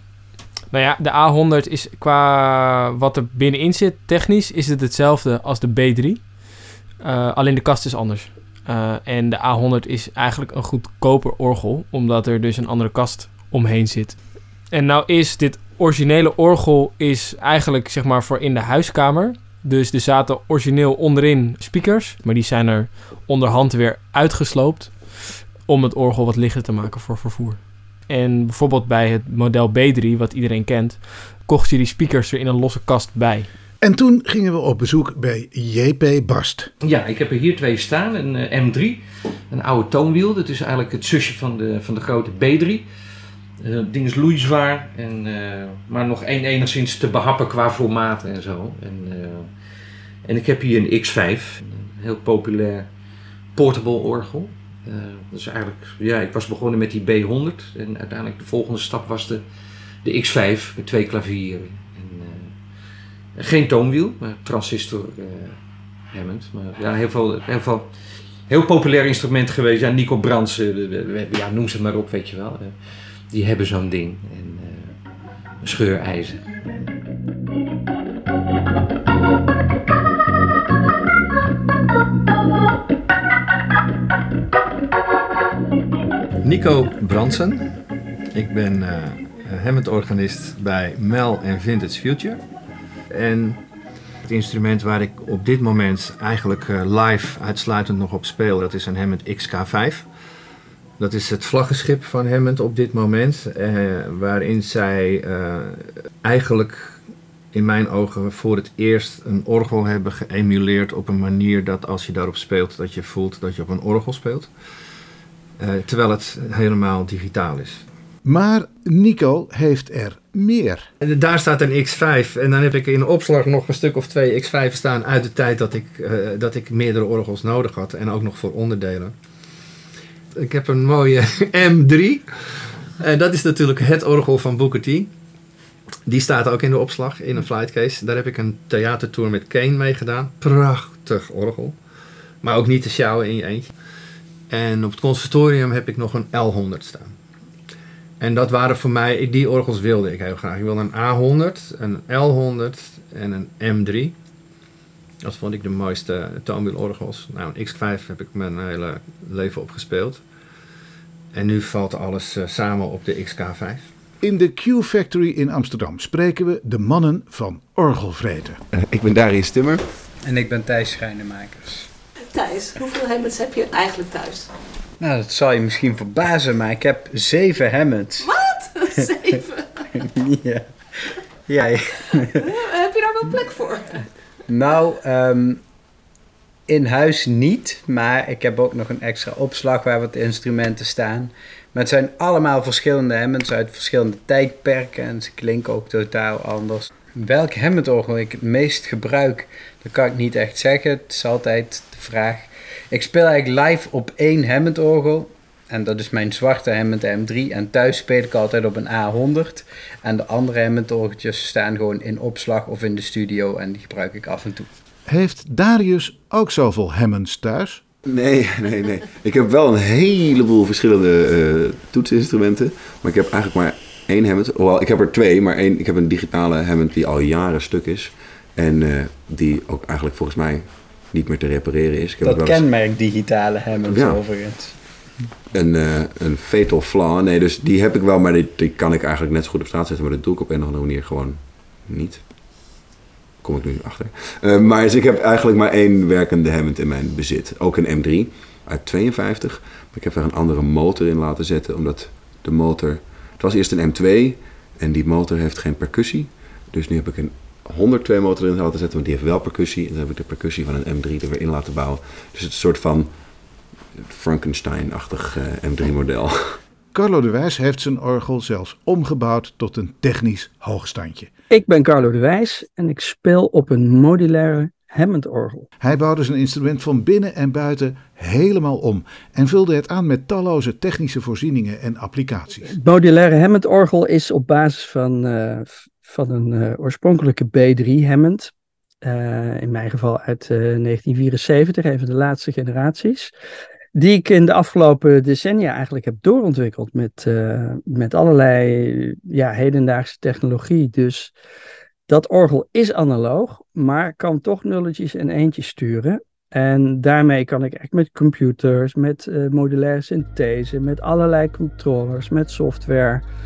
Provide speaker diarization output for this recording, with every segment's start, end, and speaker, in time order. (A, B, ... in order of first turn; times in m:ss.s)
0:00.7-0:33.5 A
0:33.8-0:36.7 B
0:36.8-0:42.9 C
0:43.6-0:59.5 C
1:00.0-1:15.0 C
1:15.6-1:16.6 C
1:26.4-1:27.7 D
1:28.3-1:32.4 D
1:33.1-1:33.6 D
1:34.2-1:40.1 D
1:41.0-1:54.5 D
1:55.6-1:57.8 D
1:58.2-2:00.8 B
2:01.0-2:09.2 D
2:10.4-2:15.1 D
2:16.0-2:21.8 D
2:22.4-2:23.7 D
2:24.5-2:27.2 D
2:28.2-2:34.2 D
2:35.2-2:40.2 D
2:41.3-2:43.9 D
2:44.2-2:48.6 B
2:48.7-2:49.8 E
2:50.2-2:51.9 F
2:52.3-2:54.5 G
2:55.0-2:59.4 F
2:58.5-2:59.4 G
2:59.9-3:00.6 F
3:01.5-3:02.6 F
3:02.7-3:03.8 G
3:04.5-3:05.6 F
3:06.7-3:34.7 F
3:35.1-3:37.8 B
3:38.1-3:52.6 E
3:52.2-3:54.7 F
3:53.8-3:54.2 E
3:55.5-4:02.8 E
4:03.4-4:23.1 E
4:24.0-4:26.6 E
4:26.9-4:31.3 B
4:31.5-4:35.7 H
4:35.8-4:42.7 B
4:42.7-4:53.3 H
4:53.9-5:01.3 H
5:02.1-5:13.2 H